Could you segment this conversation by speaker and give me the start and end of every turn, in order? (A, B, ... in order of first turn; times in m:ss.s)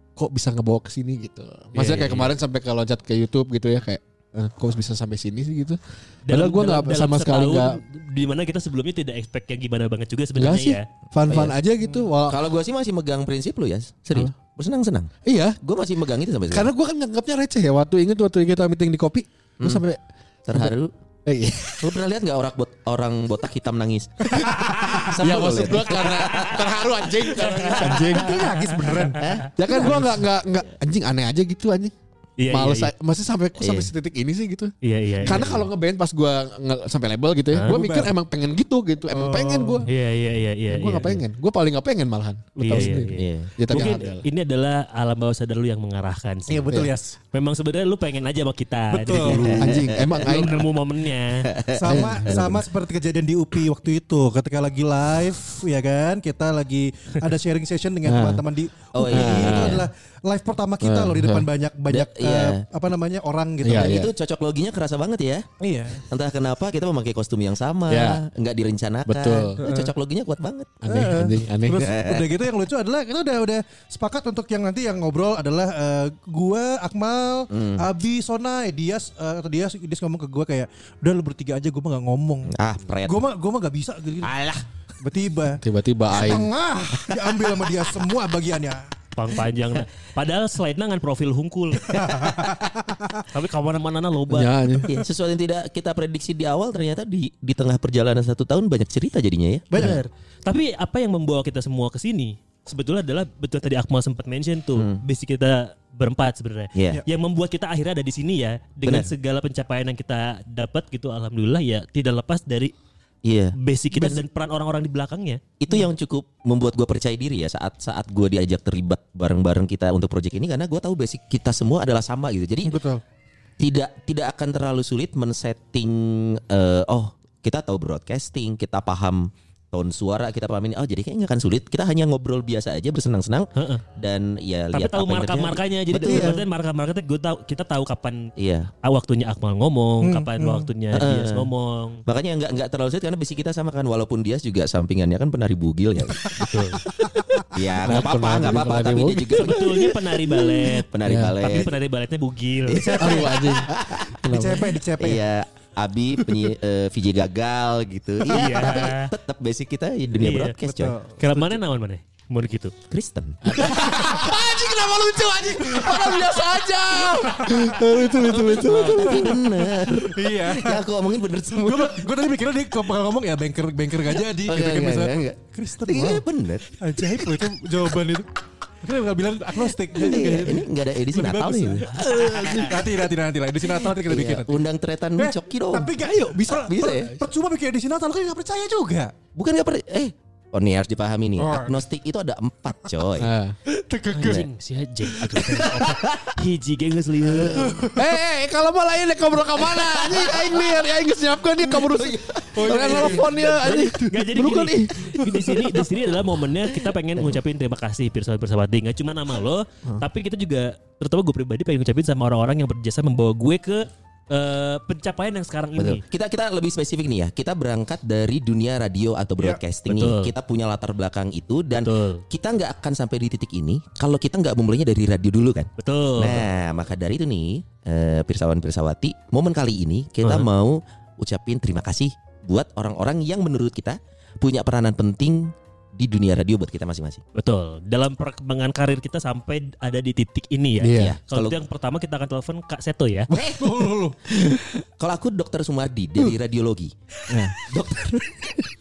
0:00.2-0:07.8 A
0:01.8-0:02.3 B
0:06.3-0:10.8 B
0:10.4-0:12.4 A
0:11.3-0:11.6 C
0:12.3-0:16.7 C
0:15.3-0:15.6 A
0:16.5-0:20.0 A
0:20.5-0:20.9 C
0:21.3-0:21.9 A
0:21.8-0:26.7 C
0:25.0-0:28.5 A
0:27.4-0:28.2 B
0:27.6-0:29.2 D
0:29.2-0:30.2 C
0:29.6-0:31.9 A
0:32.4-0:32.9 B
0:32.5-0:39.9 A
0:33.6-0:33.9 C
0:34.8-0:35.7 B
0:37.5-0:38.0 B
0:39.1-0:39.9 D
0:39.9-0:41.2 B
0:40.7-0:44.2 A
0:42.6-0:46.7 B
0:42.7-0:43.8 C
0:46.5-0:47.2 D
0:47.3-0:51.4 B
0:48.9-0:49.7 D
0:49.1-0:50.6 C
0:49.6-0:50.5 A
0:51.4-0:52.6 C
0:51.8-1:03.9 D
0:51.9-0:52.4 A
0:58.0-0:58.4 A
0:58.9-0:59.9 C
0:59.1-0:59.9 A
1:00.8-1:01.5 A
1:01.9-1:02.6 C
1:03.6-1:04.1 A
1:03.7-1:05.5 C
1:05.6-1:06.0 D
1:06.1-1:10.9 C
1:07.9-1:08.2 A
1:09.1-1:09.6 A
1:09.6-1:09.9 D
1:10.8-1:11.9 A
1:10.9-1:24.3 D
1:11.7-1:12.3 C
1:17.5-1:17.9 C
1:22.5-1:23.2 C
1:24.2-1:24.6 C
1:25.0-1:28.9 D
1:25.6-1:26.5 A
1:27.0-1:27.9 C
1:29.2-1:31.9 B
1:31.9-1:33.2 D
1:31.9-1:32.6 C
1:33.3-1:34.5 B
1:34.3-1:34.9 A
1:34.8-1:39.9 C
1:39.7-1:40.1 D
1:40.4-1:52.7 B
1:44.8-1:45.0 C
1:46.8-1:47.0 C
1:48.8-1:49.1 C
1:53.2-1:53.6 C
1:53.6-1:55.4 B
1:53.9-1:54.2 D
1:55.6-2:02.8 C
2:02.6-2:03.0 D
2:03.6-2:16.4 C
2:13.6-2:13.8 B
2:14.7-2:18.3 B
2:16.1-2:16.3 D
2:18.4-2:18.7 C
2:18.8-2:22.0 B
2:20.0-2:20.7 D
2:20.9-2:21.5 C
2:22.1-2:26.6 C
2:26.4-2:26.8 B
2:27.1-2:27.5 D
2:27.5-2:31.8 C
2:27.8-2:29.6 A
2:29.4-2:30.9 B
2:31.0-2:31.4 A
2:31.4-2:33.3 B
2:32.7-2:34.2 C
2:32.9-2:34.7 A
2:34.2-2:35.2 D
2:34.9-2:41.0 C
2:38.3-2:39.1 B
2:40.2-2:40.5 B
2:40.6-2:41.6 D
2:41.2-2:42.7 B
2:42.9-2:43.4 C
2:43.4-2:49.4 A
2:43.6-2:44.4 D
2:45.2-2:46.5 D
2:47.2-2:50.8 D
2:48.3-2:52.1 C
2:51.5-2:56.2 D
2:54.4-2:57.5 C
2:56.8-2:58.3 D
2:58.8-3:04.6 D
2:59.9-3:02.8 C
3:02.2-3:02.7 B
3:04.0-3:05.9 C
3:05.2-3:09.1 D
3:06.0-3:06.6 A
3:06.5-3:07.2 C
3:09.4-3:13.3 C
3:11.4-3:11.8 D
3:13.2-3:13.6 A
3:13.7-3:14.4 D
3:14.1-3:17.8 B
3:15.2-3:15.4 D
3:15.4-3:16.3 C
3:17.4-3:18.1 D
3:18.0-3:24.8 A
3:19.7-3:20.5 C
3:21.9-3:23.2 C
3:22.5-3:24.3 D
3:24.1-3:36.0 B
3:24.5-3:24.9 C
3:25.2-3:25.6 D
3:35.8-3:57.2 C
3:39.9-3:40.3 B
3:41.7-3:42.2 B
3:45.8-3:46.4 B
3:57.4-4:03.3 B
4:00.8-4:01.2 A
4:00.9-4:01.6 C
4:03.3-4:07.0 C
4:03.6-4:04.2 D
4:07.3-4:07.6 A
4:07.6-4:08.6 C